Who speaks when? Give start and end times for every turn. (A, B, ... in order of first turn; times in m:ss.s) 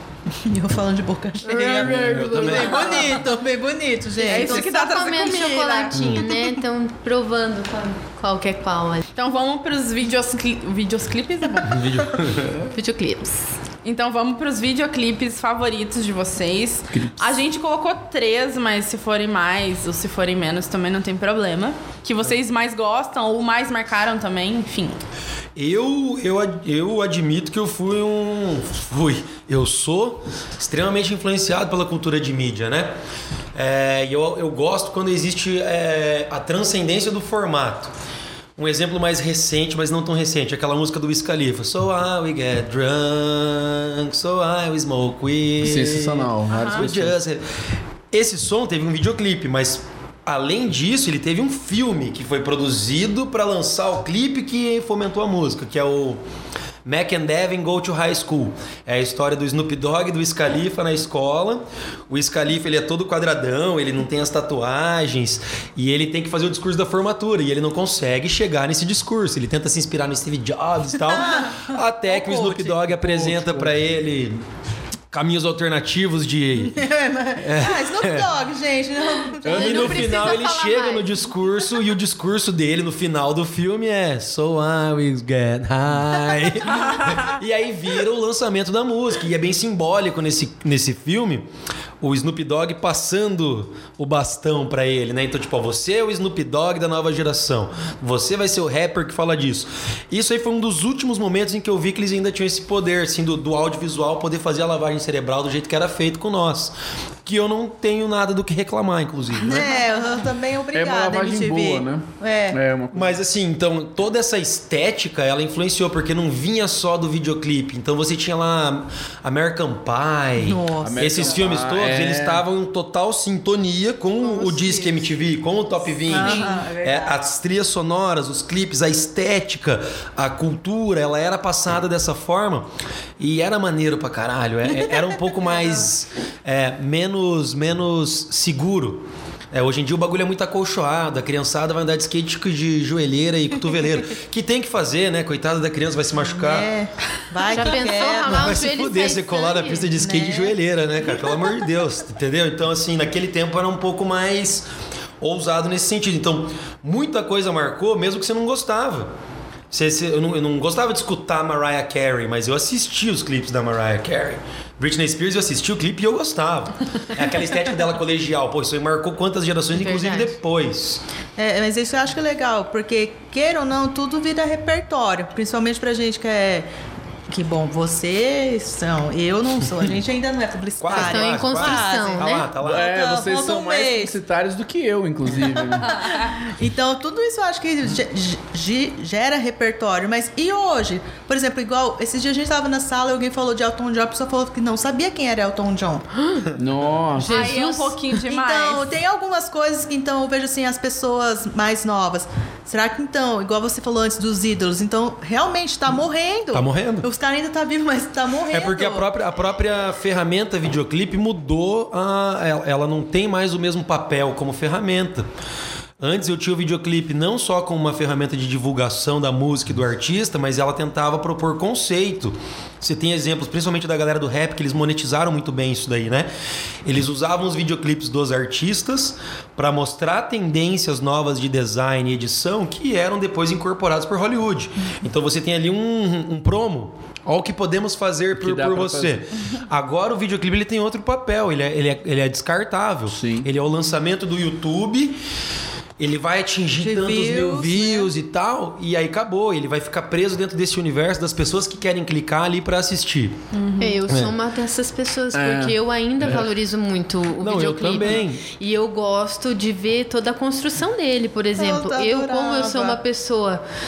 0:00.3-0:04.7 A
0:01.4-0:03.2 B
0:01.8-0:02.9 C
0:02.4-0:03.2 D
0:04.2-0:06.0 D
0:04.4-0:09.1 B
0:05.9-0:06.3 C
0:09.2-0:12.0 D
0:11.7-0:12.6 C
0:12.7-0:13.5 B
0:13.8-0:25.0 D
0:16.9-0:17.2 E
0:25.6-0:32.9 C
0:33.6-0:37.9 C
0:38.6-0:47.4 C
0:45.6-0:47.2 E
0:48.1-0:56.2 C
0:56.8-1:14.4 C
1:11.1-1:12.8 A
1:12.8-1:13.8 E
1:15.1-1:16.8 C
1:16.7-1:19.9 A
1:17.4-1:18.3 C
1:19.4-1:20.2 E
1:19.5-1:31.5 C
1:19.5-1:21.1 B
1:32.0-1:49.7 C
1:49.4-1:52.6 A
1:50.7-1:53.2 E
1:52.9-2:12.7 C
2:00.4-2:01.4 A
2:00.8-2:02.4 E
2:04.2-2:05.0 A
2:06.0-2:07.1 A
2:13.2-2:26.7 C
2:26.2-2:28.6 A
2:27.4-2:29.9 B
2:28.0-2:34.7 C
2:30.0-2:30.5 A
2:35.2-2:39.1 C
2:39.7-2:51.0 C
2:49.7-2:50.4 B
2:51.4-2:56.7 A
2:57.3-3:04.2 A
3:00.8-3:02.9 C
3:00.9-3:02.5 B
3:02.6-3:06.0 E
3:05.4-3:16.1 A
3:16.2-3:16.4 B
3:16.6-3:17.6 E
3:17.2-3:18.0 B
3:17.2-3:19.0 D
3:18.3-3:29.1 A
3:26.5-3:27.1 C
3:28.5-3:35.3 C
3:36.0-3:46.3 C
3:46.8-4:05.2 C
3:58.4-3:59.2 E
4:03.1-4:03.5 E
4:06.0-4:13.4 C
4:06.8-4:08.1 A
4:13.5-4:14.0 D
4:13.8-4:23.6 B
4:15.3-4:16.5 E
4:17.4-4:18.4 C
4:21.6-4:23.0 A